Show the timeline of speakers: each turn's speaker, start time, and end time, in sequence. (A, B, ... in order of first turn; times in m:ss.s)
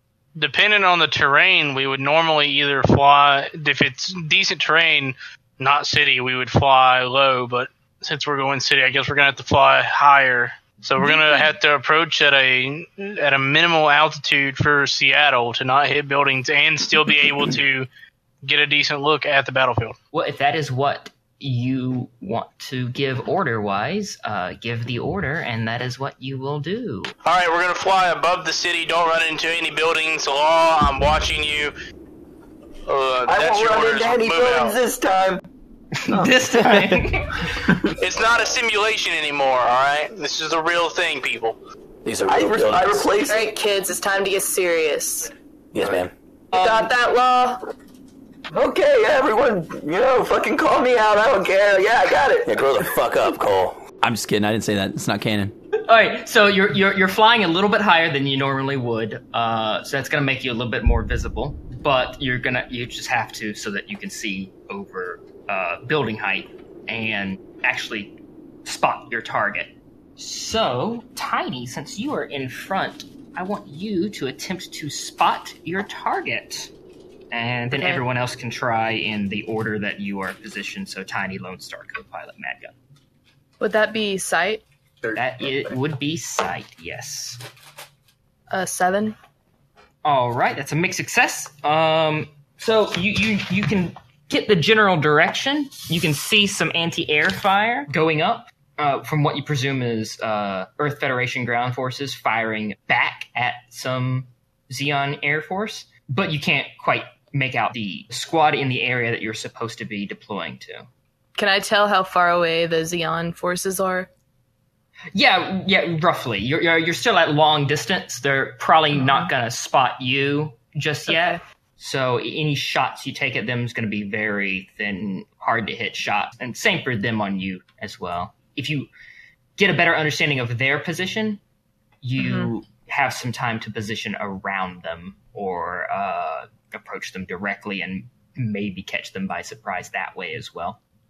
0:00.4-0:17.9 A
0:18.4-0:20.0 A
0:20.1-0:27.1 B
0:27.2-0:31.7 A
0:32.9-0:34.8 A
0:33.3-0:35.4 C
0:36.0-0:37.8 B
0:36.1-0:36.6 C
0:37.6-0:38.0 C
0:38.0-0:41.6 A
0:42.0-0:43.1 D
0:42.3-0:43.5 C
0:43.2-0:45.3 E
0:45.7-0:46.1 D
0:46.5-0:47.6 E
0:48.5-0:52.9 C
0:52.4-0:55.5 D
0:55.9-1:08.1 B
1:08.6-1:16.7 B
1:17.3-1:22.7 B
1:17.7-1:18.0 E
1:23.6-1:24.6 E
1:25.0-1:25.7 C
1:25.2-1:27.4 B
1:28.5-1:29.2 E
1:30.0-1:50.9 B
1:51.4-1:54.1 E
1:55.1-2:08.9 B
1:59.0-1:59.3 E
2:01.1-2:01.4 E
2:09.6-2:11.4 B
2:12.0-2:20.8 B
2:12.2-2:12.5 E